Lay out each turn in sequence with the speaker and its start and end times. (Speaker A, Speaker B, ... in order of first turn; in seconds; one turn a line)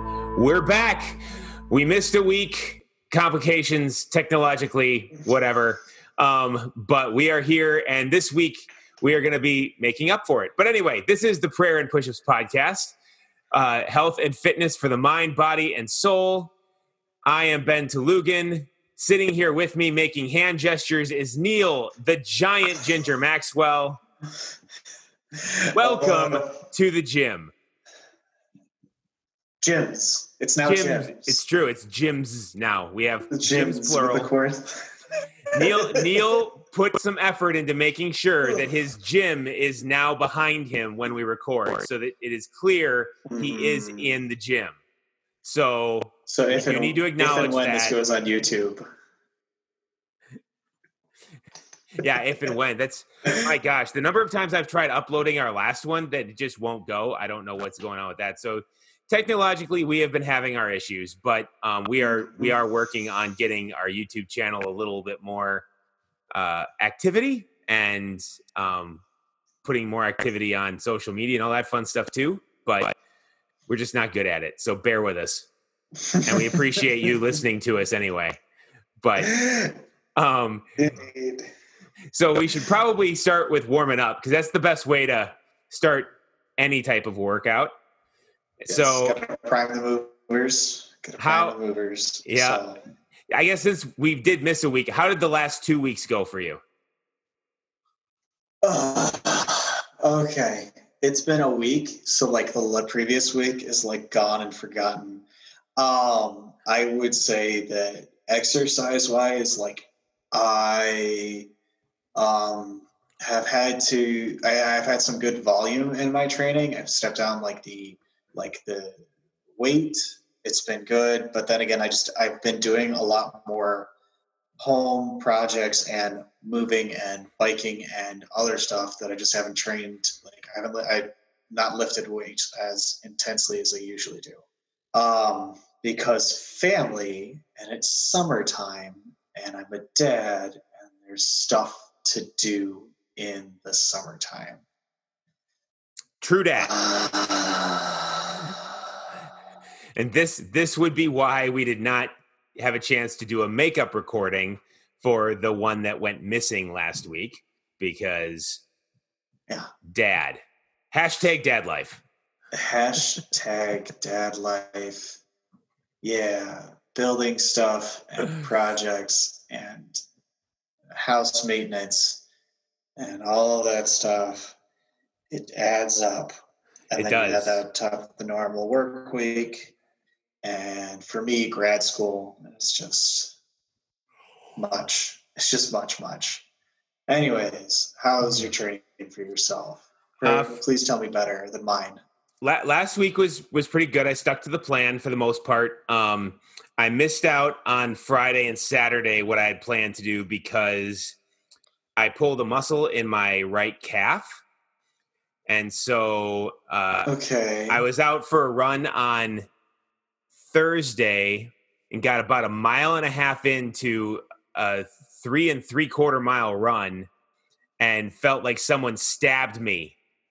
Speaker A: 0.3-12.9
Speaker A: 13.5-16.5
Speaker A: 17.2-24.0
Speaker B: 25.4-26.5
Speaker A: 25.7-27.5
Speaker B: 29.6-31.4
Speaker A: 30.6-34.3
Speaker B: 33.3-34.9
Speaker A: 35.5-44.8
Speaker B: 35.5-36.2
Speaker B: 43.2-44.1
Speaker A: 45.4-48.0
Speaker B: 46.3-48.8
Speaker A: 51.9-65.7
Speaker B: 62.0-62.5
Speaker A: 66.3-69.0
Speaker A: 69.6-72.9
Speaker A: 73.7-75.5
Speaker B: 76.1-76.5
Speaker A: 76.2-78.4
Speaker A: 79.0-79.3
Speaker B: 79.2-79.8
Speaker A: 80.2-80.7
Speaker B: 80.8-81.5
Speaker A: 82.1-87.7
Speaker A: 88.6-89.2
Speaker B: 88.7-92.8
Speaker A: 91.2-91.6
Speaker A: 92.2-92.6
Speaker A: 93.3-96.6
Speaker B: 98.6-105.2
Speaker B: 105.8-111.5
Speaker B: 112.1-123.9
Speaker B: 124.6-144.6
Speaker A: 146.2-146.7
Speaker B: 146.6-148.6
Speaker A: 149.9-158.6
Speaker A: 159.9-160.4
Speaker A: 160.9-162.0
Speaker B: 162.5-165.2
Speaker B: 166.0-170.0
Speaker B: 170.9-172.2
Speaker B: 173.0-174.6
Speaker B: 175.3-176.3
Speaker B: 176.9-179.7
Speaker A: 176.9-177.6
Speaker B: 180.4-183.3
Speaker B: 184.6-186.4
Speaker B: 187.1-192.0
Speaker A: 190.2-190.6
Speaker A: 192.4-201.2
Speaker A: 202.0-204.4
Speaker A: 205.5-207.1
Speaker B: 207.1-207.8
Speaker A: 207.7-209.5
Speaker A: 210.5-217.1
Speaker A: 217.8-220.0